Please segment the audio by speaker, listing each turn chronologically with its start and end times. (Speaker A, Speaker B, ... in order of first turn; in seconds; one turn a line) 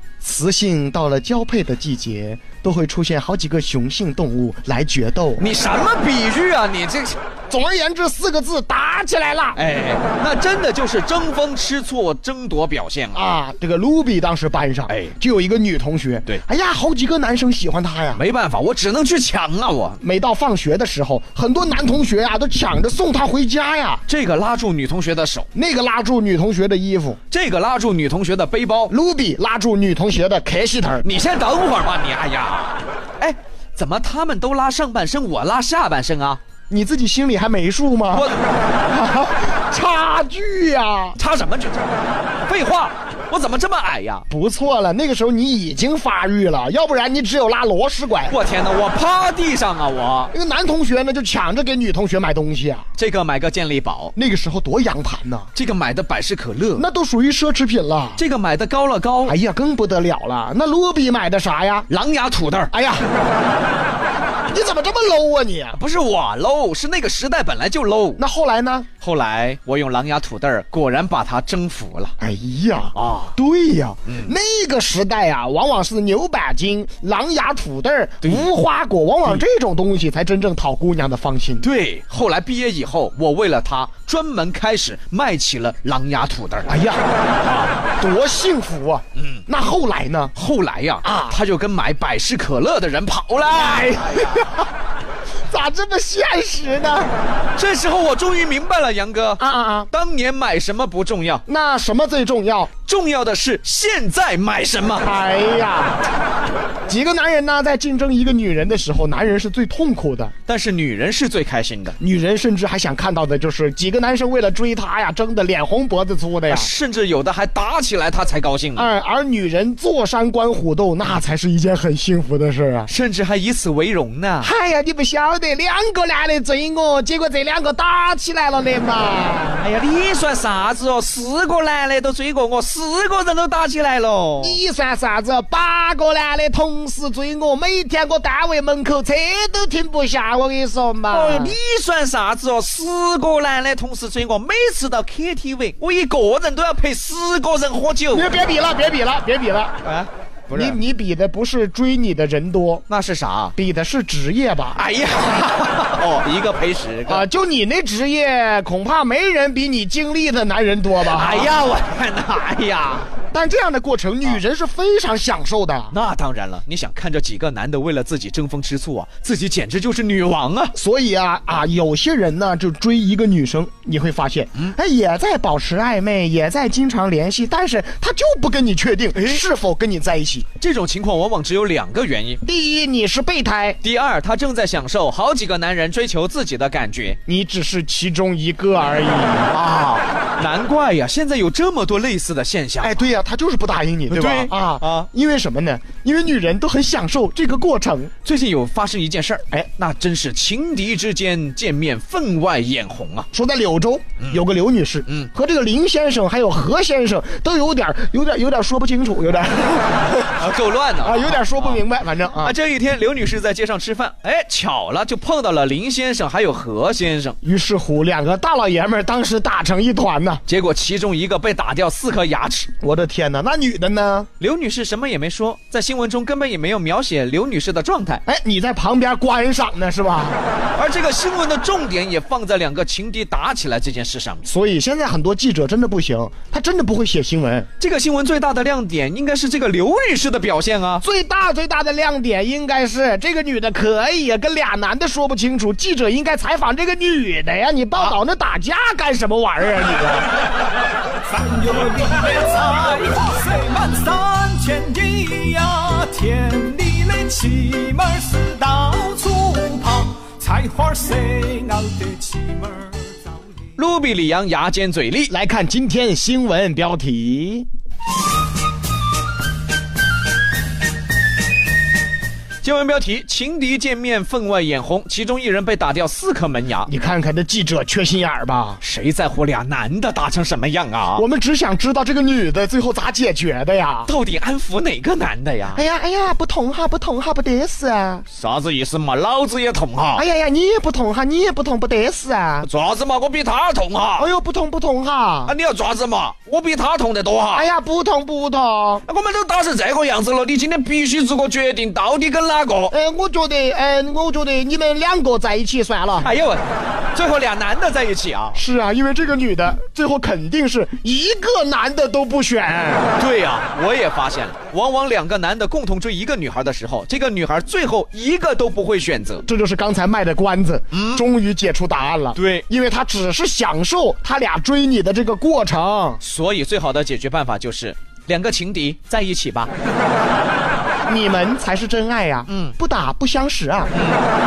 Speaker A: 0.2-5.4
Speaker B: 5.4-7.2
Speaker A: 7.5-9.6
Speaker B: 9.5-13.3
Speaker A: 13.1-18.2
Speaker B: 14.9-15.1
Speaker B: 18.2-20.0
Speaker A: 20.0-24.0
Speaker B: 24.1-25.5
Speaker A: 25.5-27.2
Speaker B: 27.3-28.9
Speaker A: 28.9-31.1
Speaker B: 31.0-36.4
Speaker A: 36.7-41.2
Speaker B: 38.1-38.4
Speaker B: 41.2-44.2
Speaker A: 44.3-48.3
Speaker B: 48.3-50.3
Speaker A: 50.3-52.9
Speaker B: 53.0-54.1
Speaker A: 54.1-55.5
Speaker B: 55.5-56.8
Speaker A: 56.8-58.2
Speaker B: 58.2-59.4
Speaker A: 59.2-61.9
Speaker B: 61.9-62.7
Speaker A: 62.7-63.1
Speaker A: 64.5-65.8
Speaker B: 65.7-68.2
Speaker A: 68.2-68.9
Speaker B: 69.0-72.1
Speaker A: 72.2-81.6
Speaker B: 72.9-73.3
Speaker B: 78.2-78.5
Speaker B: 81.6-86.8
Speaker A: 86.7-87.0
Speaker B: 87.4-87.8
Speaker A: 88.0-90.3
Speaker B: 89.2-89.4
Speaker B: 90.3-94.2
Speaker A: 91.0-91.4
Speaker A: 93.5-94.6
Speaker A: 95.5-97.1
Speaker B: 97.6-101.4
Speaker A: 99.4-99.9
Speaker A: 101.5-102.7
Speaker B: 102.8-105.1
Speaker A: 105.0-106.0
Speaker A: 106.9-110.3
Speaker B: 110.5-112.0
Speaker A: 112.0-116.7
Speaker B: 116.5-118.9
Speaker A: 118.8-122.9
Speaker B: 122.9-124.5
Speaker A: 124.4-129.6
Speaker B: 129.6-134.6
Speaker A: 134.4-141.6
Speaker B: 141.1-148.3
Speaker A: 148.1-149.8
Speaker B: 149.8-150.8
Speaker A: 150.5-152.8
Speaker B: 152.9-153.5
Speaker A: 153.6-154.8
Speaker B: 154.8-157.2
Speaker A: 157.1-161.5
Speaker B: 161.1-163.1
Speaker A: 163.3-165.9
Speaker B: 165.9-170.8
Speaker A: 170.8-180.4
Speaker B: 180.6-182.4
Speaker A: 182.4-183.8
Speaker B: 183.8-187.2
Speaker A: 187.2-189.5
Speaker B: 189.5-193.0
Speaker A: 192.8-198.1
Speaker B: 194.1-195.1
Speaker B: 198.2-203.3
Speaker A: 203.3-210.3
Speaker B: 210.4-211.8
Speaker A: 211.0-212.6
Speaker B: 212.4-217.4
Speaker A: 217.4-220.4
Speaker B: 220.4-222.7
Speaker A: 222.8-224.3
Speaker B: 224.4-228.2
Speaker A: 228.2-230.4
Speaker B: 230.8-234.4
Speaker A: 234.4-237.7
Speaker B: 237.8-241.0
Speaker A: 241.0-250.3
Speaker C: 251.3-263.1
Speaker B: 263.8-265.3
Speaker A: 265.3-267.7
Speaker B: 272.6-276.9
Speaker A: 276.9-278.8
Speaker B: 278.8-281.2
Speaker A: 281.1-284.1
Speaker B: 284.1-285.8
Speaker A: 285.7-288.2
Speaker B: 288.3-290.2
Speaker A: 290.1-292.7
Speaker B: 292.6-294.3
Speaker A: 294.2-295.5
Speaker B: 295.4-297.7
Speaker A: 297.5-299.0
Speaker B: 299.1-302.9
Speaker A: 302.9-306.3
Speaker B: 306.2-308.6
Speaker A: 308.6-313.1
Speaker B: 313.2-319.4
Speaker A: 319.4-326.2
Speaker B: 320.9-321.2
Speaker B: 322.3-322.6
Speaker B: 326.2-329.7
Speaker A: 331.1-333.9
Speaker B: 332.5-332.7
Speaker B: 333.9-334.3